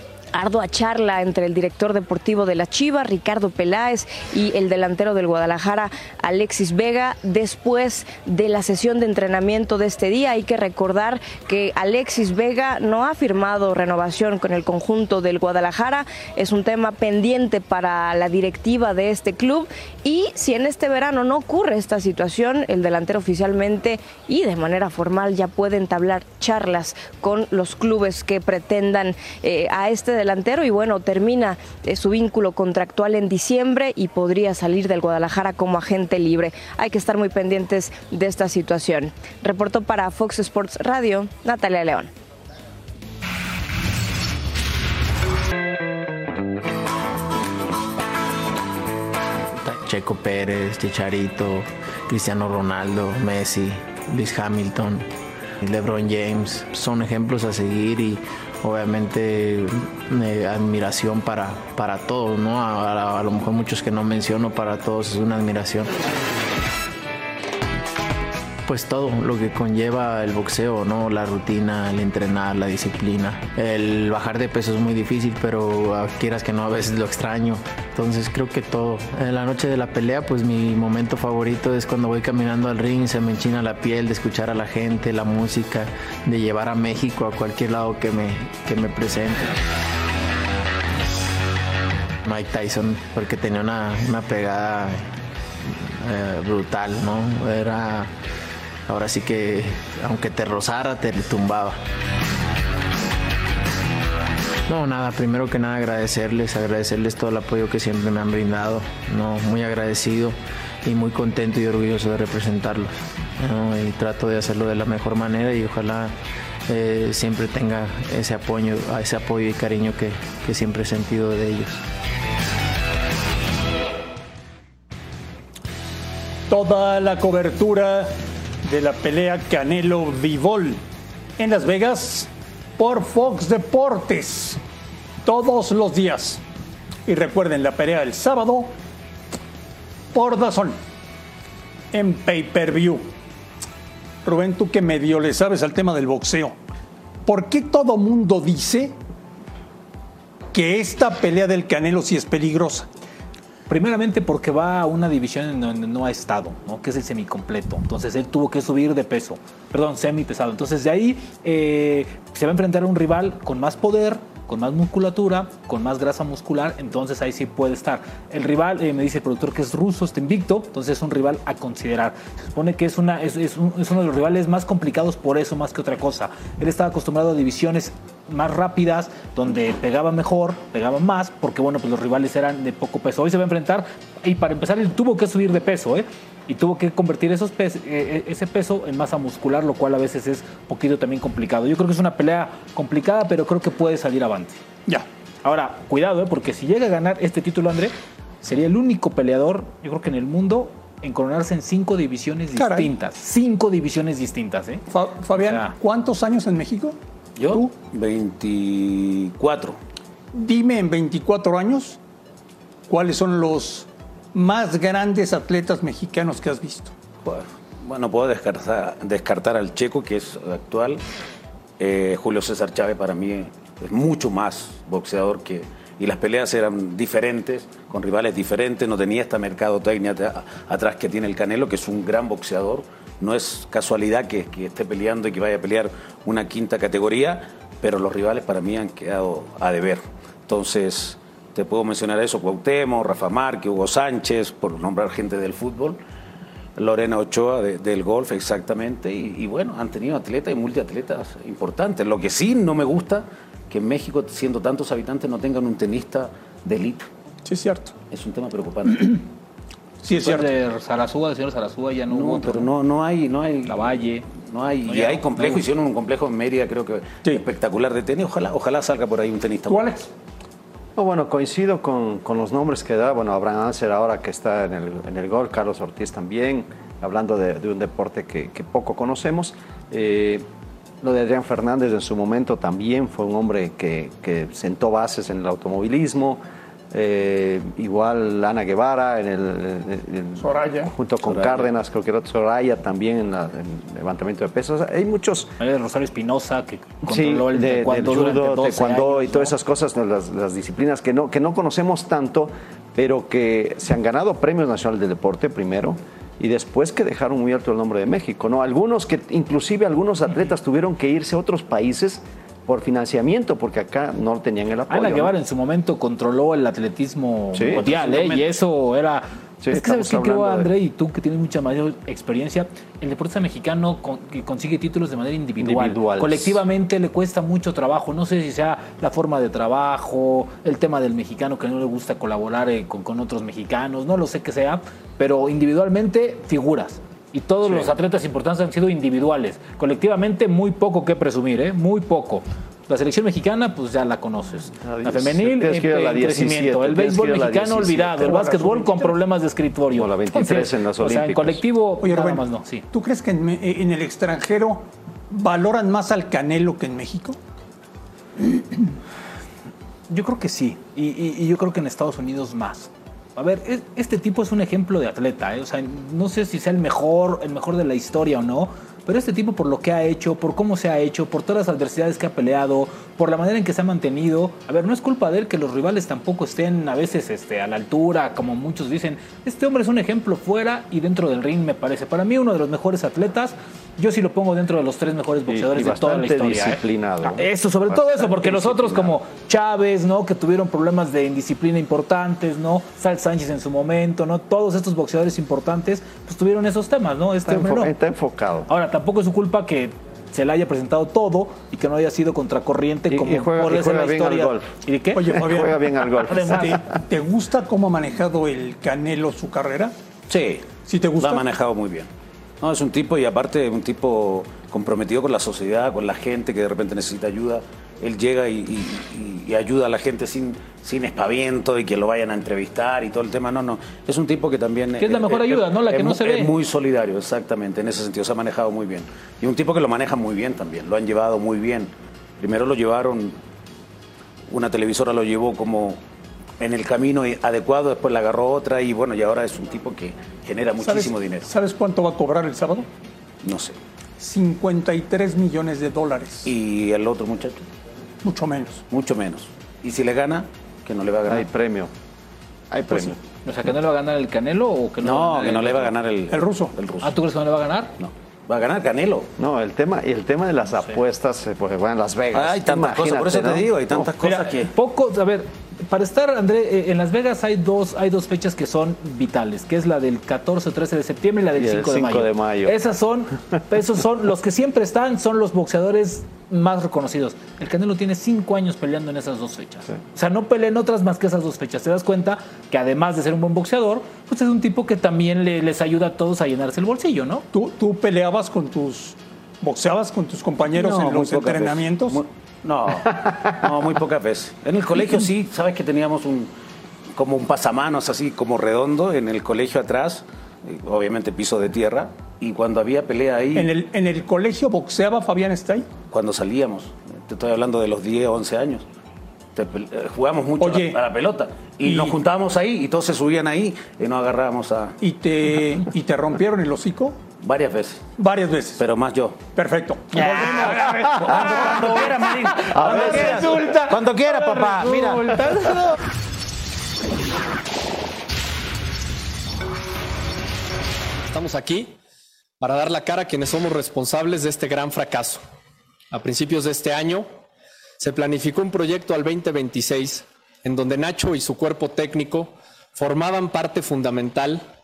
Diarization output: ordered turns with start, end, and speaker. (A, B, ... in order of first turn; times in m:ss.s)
0:00.3-0:42.1 A
0:49.5-0:55.1 B
0:55.6-1:05.9 B
1:08.6-1:29.6 B
1:32.2-1:38.1 B
1:38.9-1:41.8 B
1:44.7-1:56.1 B
1:56.7-2:01.8 B
2:06.5-2:10.8 C
2:11.4-2:14.6 C
2:15.2-2:16.4 C
2:17.0-2:18.7 C
2:20.1-2:20.8 C
2:21.9-2:23.0 C
2:24.2-2:26.6 C
2:27.2-2:29.0 C
2:30.5-2:32.9 C
2:33.7-3:14.6 D
3:15.4-3:25.7 D
3:22.5-3:22.9 C
3:24.9-3:27.0 C
3:27.4-3:29.8 E
3:30.3-3:32.0 C
3:32.9-3:36.9 C
3:37.2-3:41.0 E
3:41.8-4:06.0 E
4:06.8-4:17.1 E
4:17.4-4:17.9 C
4:18.1-4:19.2 E
4:20.0-4:20.5 C
4:20.2-4:22.7 D
4:22.1-4:30.0 E
4:23.6-4:24.3 D
4:24.8-4:25.6 D
4:29.7-4:30.1 C
4:31.0-4:40.4 F
4:41.0-4:46.4 F
4:46.9-4:55.5 F
4:50.4-4:50.9 C
4:51.3-4:51.6 D
4:55.6-4:59.5 D
4:57.0-5:15.3 F
5:14.9-5:52.8 D
5:17.5-5:17.8 F
5:17.8-5:18.4 E
5:19.6-5:20.7 F
5:25.6-5:26.6 F
5:37.6-5:37.9 F
5:44.8-5:48.8 F
5:49.9-5:51.6 F
5:52.0-5:57.4 C
6:00.1-6:37.9 D
6:25.5-6:29.1 F
6:37.4-6:38.7 F
6:38.7-6:46.8 D
6:43.1-6:44.7 F
6:45.1-6:45.8 C
6:45.3-6:46.8 F
6:46.4-6:49.9 C
6:50.3-6:52.1 E
6:50.8-6:51.4 C
6:52.6-7:13.4 E
7:05.0-7:06.5 D
7:14.5-7:16.0 E
7:16.6-7:21.5 E
7:20.8-7:22.9 C
7:23.4-7:23.8 E
7:24.2-7:26.5 C
7:26.4-7:27.6 E
7:28.2-7:28.8 C
7:28.9-7:31.5 E
7:31.3-7:31.9 F
7:32.7-7:33.2 F
7:33.4-7:35.9 D
7:35.0-7:37.1 E
7:36.3-7:36.7 C
7:37.0-7:37.9 D
7:38.0-7:39.3 E
7:39.4-7:43.7 F
7:42.3-7:44.7 E
7:44.7-8:07.4 D
7:51.6-7:52.7 F
8:07.5-8:12.2 C
8:10.8-8:16.5 E
8:17.1-8:23.7 E
8:23.5-8:25.9 C
8:26.1-8:28.8 E
8:29.5-8:35.0 E
8:30.6-8:31.0 C
8:31.8-8:32.2 C
8:35.0-8:37.2 C
8:37.4-8:38.1 E
8:38.2-8:38.8 C
8:38.8-8:39.4 E
8:39.5-8:43.6 C
8:40.1-8:45.4 E
8:42.7-8:43.1 F
8:42.8-8:45.8 D
8:51.3-8:52.0 G
8:52.6-8:55.4 G
8:56.1-8:57.3 G
8:58.0-9:04.6 G